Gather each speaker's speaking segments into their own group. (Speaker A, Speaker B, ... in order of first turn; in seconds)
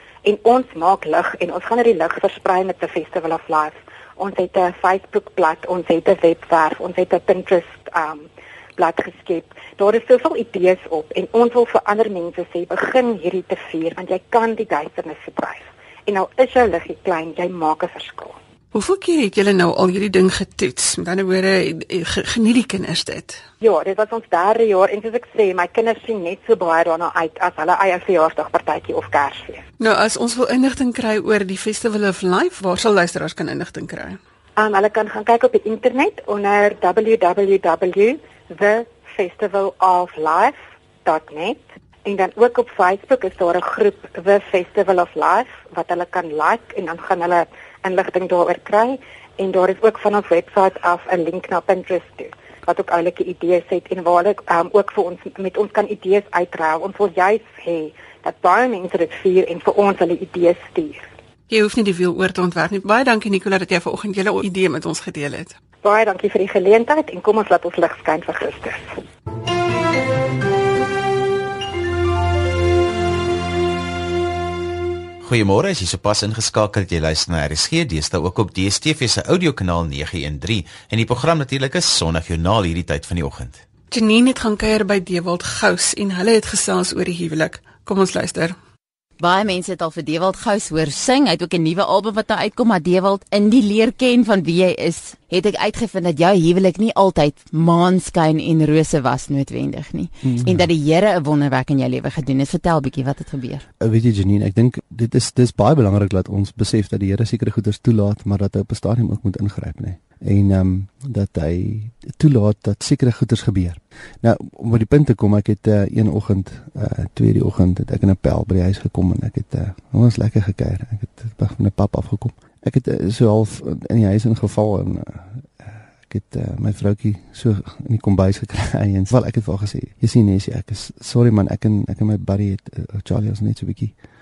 Speaker A: 0.2-18.4, 23.6-29.6, 34.6-61.1, 65.8-68.9
Speaker B: 18.7-23.4, 29.8-34.2, 61.5-65.5, 83.9-88.5
Speaker C: 75.2-83.6
Speaker D: 89.2-103.6
Speaker E: 100.2-100.7, 103.8-133.9